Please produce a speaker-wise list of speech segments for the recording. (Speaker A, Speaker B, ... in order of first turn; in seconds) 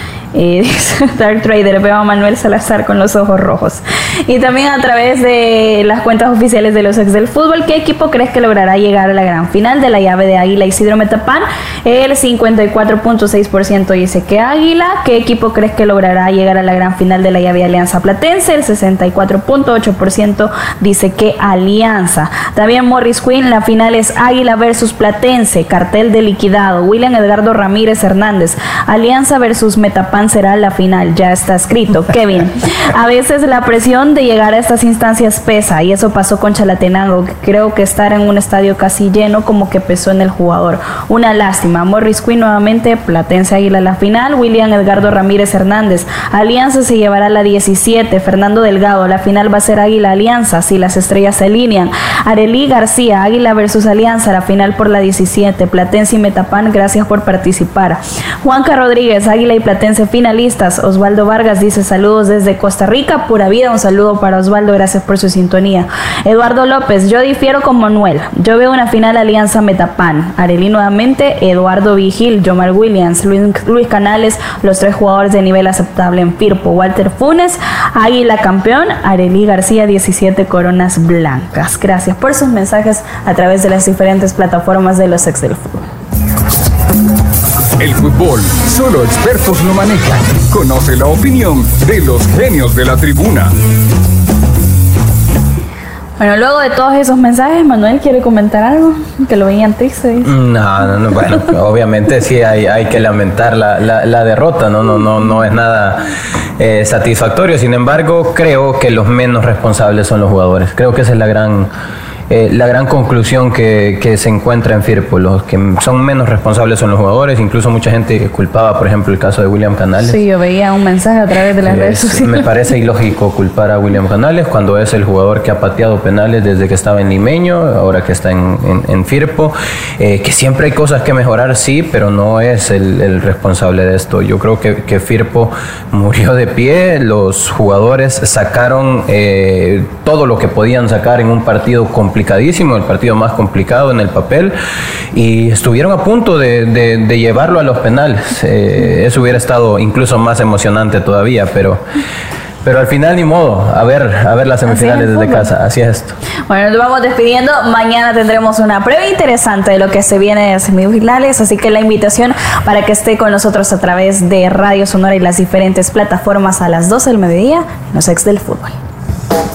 Speaker A: 0.3-85.9, 96.2-100.3, 120.0-122.4, 154.7-155.5, 156.5-168.8
Speaker B: 87.8-93.5
Speaker C: 100.2-106.0, 106.6-111.7, 112.3-120.2, 121.6-144.6, 145.1-151.8, 152.6-156.2